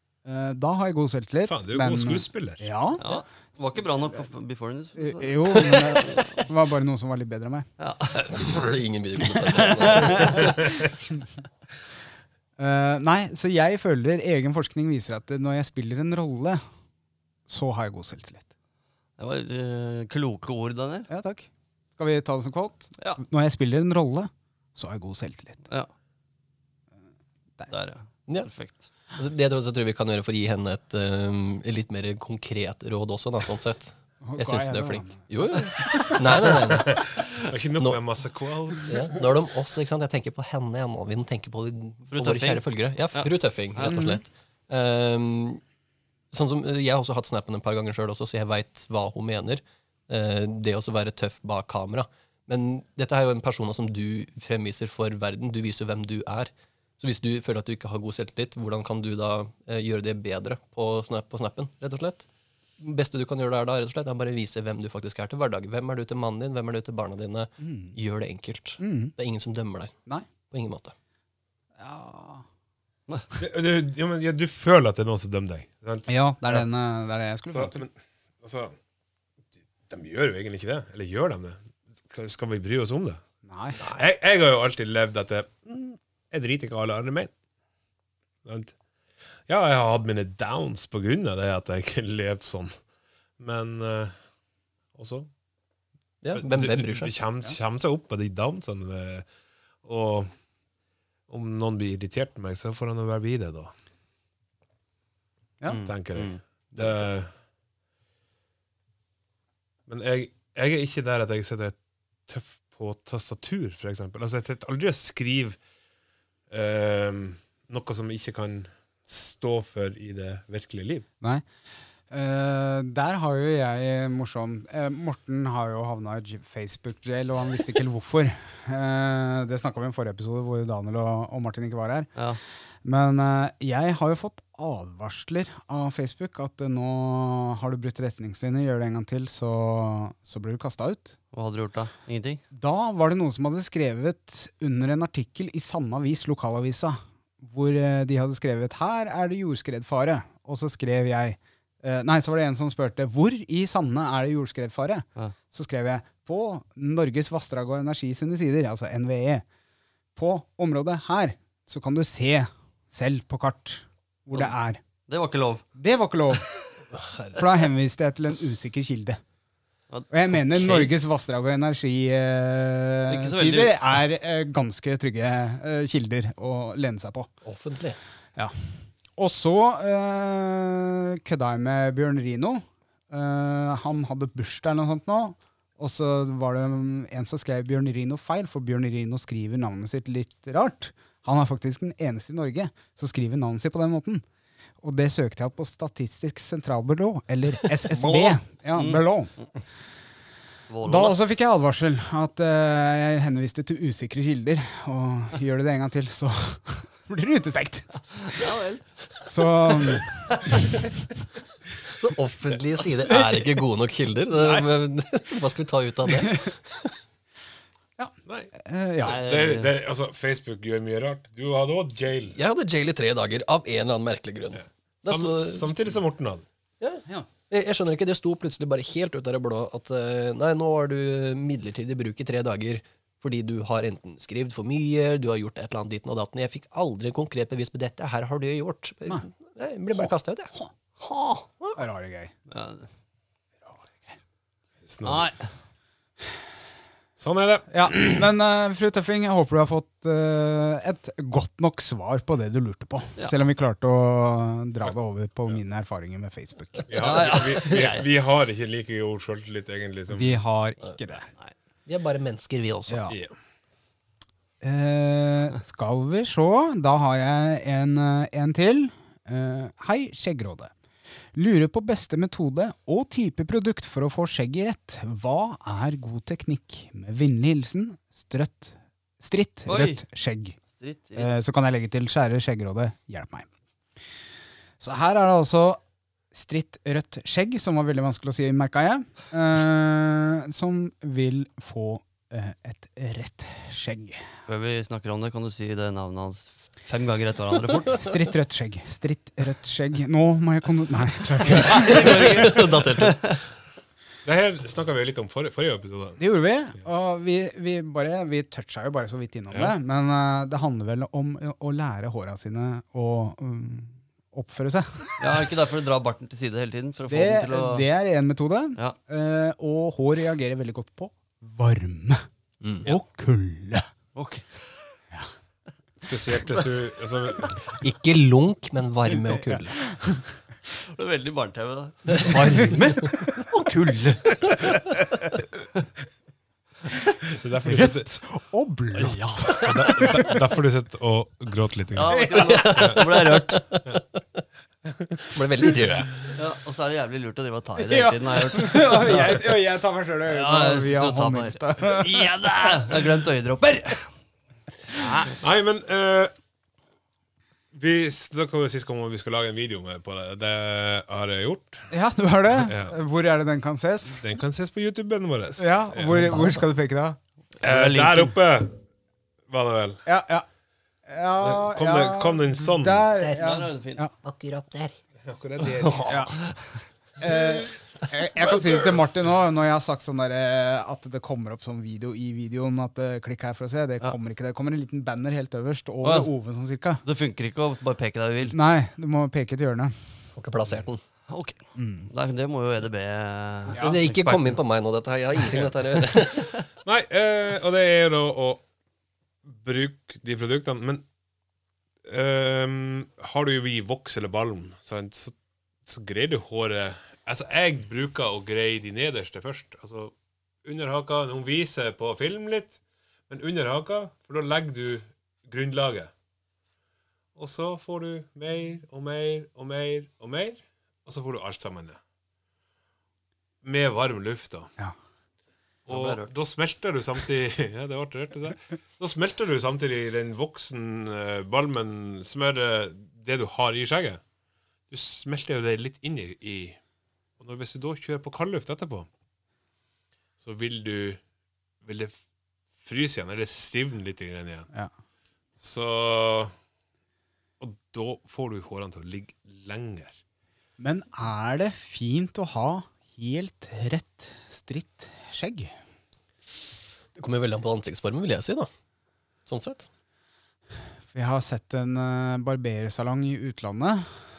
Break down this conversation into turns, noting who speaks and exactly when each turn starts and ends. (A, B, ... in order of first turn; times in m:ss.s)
0:00.2-0:03.0 A
0:01.5-0:02.7 B
0:03.0-0:06.5 C
0:05.0-0:07.7 A
0:07.8-0:08.6 C
0:08.2-0:10.6 D
0:09.8-0:10.6 C
0:09.9-0:10.8 A
0:12.6-0:16.6 A
0:17.5-0:18.5 A
0:19.2-0:21.1 C
0:21.1-0:25.7 A
0:27.7-0:28.8 C
0:29.1-0:37.1 D
0:34.2-0:35.3 A
0:36.7-0:39.2 B
0:38.9-0:45.6 D
0:42.1-0:44.2 C
0:43.8-0:44.2 A
0:46.3-1:02.3 D
1:02.8-1:10.0 D
1:07.6-1:08.0 A
1:08.8-1:09.1 A
1:10.5-1:10.9 D
1:11.8-1:12.4 A
1:13.4-1:16.6 B
1:16.1-1:17.8 A
1:17.5-1:18.8 B
1:19.9-1:23.2 B
1:23.4-1:23.8 A
1:23.8-1:24.0 D
1:23.8-1:27.3 B
1:28.4-1:28.8 B
1:29.5-1:32.8 B
1:33.4-1:34.1 B
1:35.0-1:35.3 B
1:36.2-1:37.1 D
1:36.4-1:39.3 B
1:39.8-1:40.3 B
1:41.3-1:43.7 B
1:45.7-1:46.4 C
1:45.8-1:47.3 B
1:49.9-1:55.6 B
1:56.5-2:01.1 B
2:02.1-2:12.1 A
2:12.8-2:21.2 A
2:21.3-2:22.4 C
2:22.5-2:39.4 A
2:40.2-2:44.8 A
2:45.1-2:45.6 C
2:45.8-2:46.6 A
2:46.9-2:47.4 D
2:47.3-2:49.2 A
2:49.9-2:50.9 C
2:50.1-2:57.3 A
2:53.1-2:54.0 C
2:57.4-2:58.0 D
2:59.2-3:14.2 A
3:14.8-3:19.3 A
3:18.0-3:18.4 D
3:18.8-3:19.0 C
3:20.7-3:21.2 C
3:20.8-3:28.4 A
3:28.2-3:28.8 C
3:29.2-3:30.6 A
3:31.9-3:36.8 D
3:33.1-3:33.4 A
3:34.4-3:34.6 A
3:36.2-3:36.5 A
3:38.0-3:39.3 A
3:39.0-3:42.4 B
3:39.1-3:39.7 C
3:42.4-3:45.9 D
3:44.6-3:46.4 B
3:46.8-4:00.5 D
4:01.0-4:01.5 C
4:01.8-4:02.3 A
4:02.5-4:02.9 C
4:03.7-4:04.2 A
4:04.8-4:05.3 B
4:05.0-4:05.5 C
4:07.2-4:08.2 B
4:07.7-4:16.9 A
4:16.9-4:20.4 B
4:16.9-4:18.1 C
4:20.1-4:21.3 A
4:21.9-4:23.0 D
4:22.9-4:23.2 A
4:24.6-4:30.7 A
4:31.4-4:40.6 A
4:39.7-4:40.0 C
4:40.8-4:41.4 C
4:41.2-4:43.5 A
4:44.8-4:45.8 A
4:46.3-4:54.2 A
4:54.5-4:58.1 C
4:58.0-5:02.5 A
5:01.4-5:03.4 C
5:01.4-5:03.4 D
5:04.2-5:06.2 B
5:06.2-5:15.2 A
5:15.2-5:17.8 C
5:17.1-5:22.2 A
5:22.6-5:22.9 D
5:22.8-5:23.9 A
5:24.2-5:25.0 C
5:26.0-5:27.6 B
5:27.7-5:29.8 D
5:29.1-5:30.2 A
5:30.8-5:34.1 C
5:32.3-5:32.7 A
5:33.2-5:34.5 A
5:37.3-5:38.1 B
5:37.6-5:40.2 A
5:39.0-5:39.8 C
5:39.4-5:43.0 B
5:42.0-5:43.8 C
5:42.1-5:42.6 A
5:42.4-5:44.0 D
5:44.9-5:46.1 B
5:45.3-5:46.1 D
5:46.3-5:49.6 C
5:47.8-5:52.3 A
5:50.3-5:54.1 C
5:54.9-5:55.4 C
5:55.4-5:56.3 B
5:57.7-6:01.9 B
6:01.9-6:04.2 A
6:02.6-6:03.0 B
6:04.2-6:06.4 B
6:05.6-6:07.2 A
6:06.3-6:06.6 D
6:07.6-6:08.3 C
6:07.6-6:08.8 B
6:09.5-6:10.0 B
6:10.1-6:10.5 A
6:11.1-6:14.1 A
6:11.4-6:13.1 B
6:13.2-6:13.4 D
6:13.4-6:14.0 C
6:14.2-6:15.0 D
6:15.2-6:16.3 B
6:15.7-6:16.7 C
6:16.1-6:16.4 A
6:17.2-6:27.0 A
6:26.0-6:26.3 C
6:27.0-6:28.6 C
6:28.5-6:29.9 A
6:30.4-6:31.0 D
6:31.3-6:31.6 C
6:31.8-6:32.1 A
6:32.1-6:34.6 C
6:33.7-6:34.0 A
6:33.7-6:36.6 D
6:36.8-6:38.6 B
6:39.4-6:41.0 B
6:42.0-6:45.4 B
6:45.9-6:56.1 B
6:57.4-7:02.0 B
7:03.6-7:04.7 B
7:05.9-7:06.3 C
7:05.9-7:14.2 B
7:14.9-7:16.8 B
7:17.4-7:19.1 B
7:20.4-7:21.2 B
7:21.8-7:22.2 B
7:22.8-7:24.7 B
7:25.6-7:26.5 B
7:27.6-7:30.2 B
7:30.8-7:35.7 A
7:37.2-7:38.7 D
7:39.5-7:39.9 D
7:41.1-7:44.2 A